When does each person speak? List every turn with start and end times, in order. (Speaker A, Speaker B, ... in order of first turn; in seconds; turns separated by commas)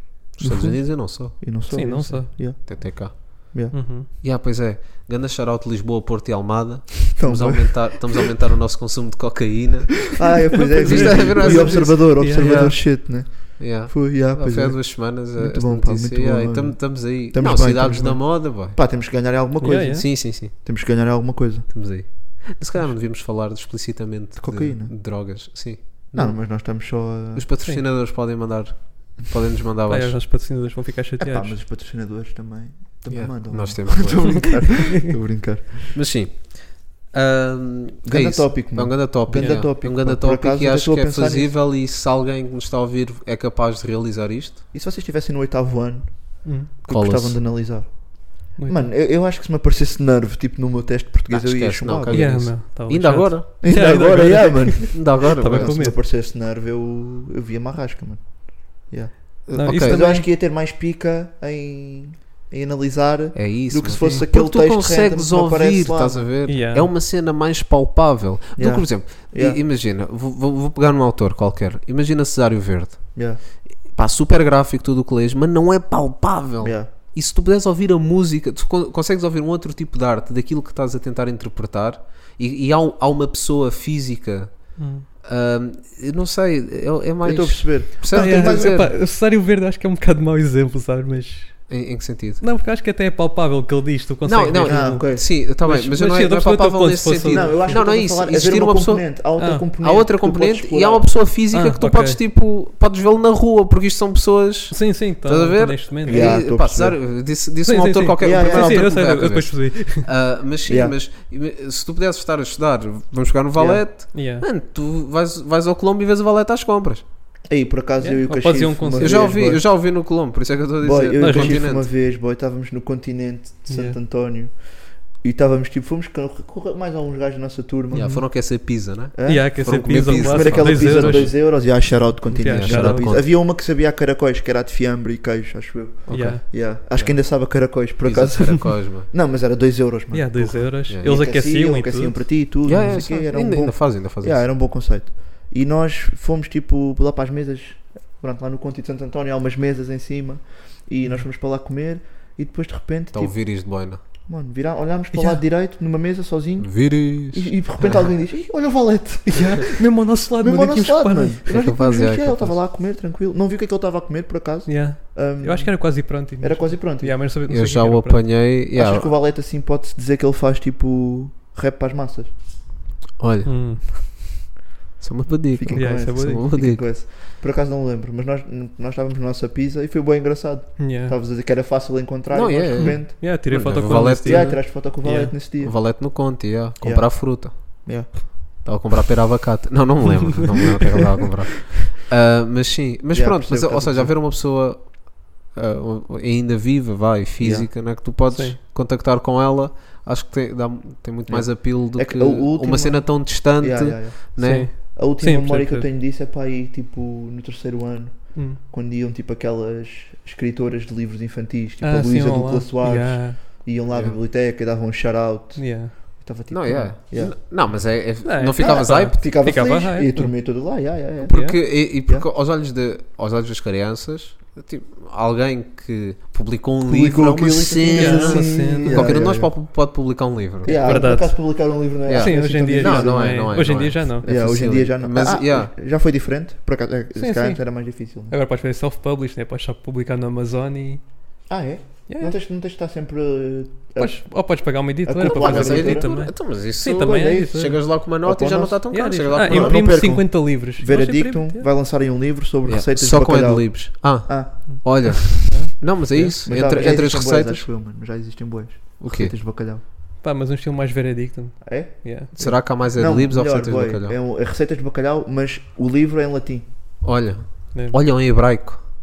Speaker A: 0.4-1.4, Speaker B: 0.4-3.8, Speaker C: 1.7-2.3, Speaker A: 2.5-18.8, Speaker C: 3.7-4.1, Speaker B: 7.1-8.0, Speaker B: 10.1-21.7, Speaker C: 10.6-12.7, Speaker C: 19.6-20.1, Speaker A: 19.8-20.5, Speaker A: 21.7-30.2, Speaker B: 24.4-24.9, Speaker B: 26.1-27.4, Speaker C: 29.9-31.6, Speaker B: 31.2-36.0, Speaker A: 33.1-34.7, Speaker A: 35.9-44.6, Speaker B: 38.0-41.5, Speaker C: 39.4-39.6, Speaker B: 44.7-52.4, Speaker C: 46.4-46.7, Speaker A: 46.9-47.6, Speaker C: 48.5-48.9, Speaker A: 51.3-53.5, Speaker C: 52.1-56.0, Speaker B: 53.6-66.3, Speaker A: 54.9-55.9, Speaker A: 59.5-60.2, Speaker C: 59.5-60.2, Speaker A: 63.3-88.9, Speaker C: 63.9-64.2, Speaker C: 66.5-66.9, Speaker B: 68.6-69.6, Speaker B: 73.1-73.4, Speaker B: 76.6-76.9, Speaker C: 84.8-85.0, Speaker B: 87.2-88.9, Speaker C: 88.1-91.8, Speaker A: 91.7-92.4, Speaker C: 92.4-97.9, Speaker A: 94.2-117.0, Speaker B: 94.6-95.3, Speaker B: 97.3-101.1, Speaker C: 99.4-99.7, Speaker C: 101.5-102.2, Speaker C: 104.7-106.5, Speaker B: 106.0-107.0, Speaker C: 107.6-110.0, Speaker B: 108.2-109.0, Speaker B: 110.7-111.0, Speaker B: 113.5-113.9, Speaker C: 114.1-114.5, Speaker B: 117.5-119.7, Speaker C: 118.0-119.4, Speaker A: 119.0-121.9, Speaker B: 120.8-128.3, Speaker C: 121.2-121.6, Speaker C: 123.7-124.0, Speaker A: 127.9-131.3, Speaker C: 127.9-128.2, Speaker B: 129.1-167.2, Speaker C: 129.2-133.1, Speaker A: 132.4-133.2, Speaker A: 136.1-139.1, Speaker C: 136.1-136.4, Speaker C: 140.1-142.3, Speaker A: 140.9-141.1, Speaker A: 142.6-144.5, Speaker A: 153.1-154.0, Speaker C: 155.1-155.4, Speaker A: 156.6-158.1, Speaker C: 159.3-161.4, Speaker A: 161.5-162.6, Speaker C: 164.7-168.3, Speaker A: 167.5-169.1, Speaker B: 168.7-172.3, Speaker A: 173.2-173.9, Speaker C: 173.4-173.8, Speaker A: 175.0-176.9, Speaker B: 175.5-186.2, Speaker C: 175.7-176.4, Speaker C: 180.8-181.2, Speaker A: 182.3-184.9, Speaker C: 182.8-185.3, Speaker A: 185.6-204.7, Speaker B: 186.8-188.3, Speaker B: 193.1-194.1, Speaker B: 197.4-197.7, Speaker C: 198.3-198.6, Speaker B: 201.3-217.4, Speaker C: 204.4-205.9, Speaker C: 208.3-208.6, Speaker C: 211.8-213.4, Speaker A: 213.9-214.2, Speaker C: 215.6-215.9, Speaker A: 216.5-219.2, Speaker C: 218.2-221.6, Speaker B: 218.6-222.3, Speaker A: 221.2-231.3, Speaker B: 226.8-229.6, Speaker C: 227.9-229.2, Speaker B: 230.6-238.3, Speaker C: 230.6-234.2, Speaker A: 232.1-235.7, Speaker C: 237.2-241.0, Speaker B: 241.5-246.2, Speaker C: 242.1-242.4, Speaker C: 244.0-247.8, Speaker A: 245.2-250.0, Speaker B: 247.1-247.4, Speaker B: 248.0-255.2, Speaker C: 248.9-251.7, Speaker A: 252.6-257.7, Speaker C: 254.7-256.4, Speaker B: 256.4-259.8, Speaker A: 259.0-259.4, Speaker C: 260.2-262.3, Speaker B: 261.6-266.7, Speaker A: 262.3-264.1, Speaker A: 267.0-268.8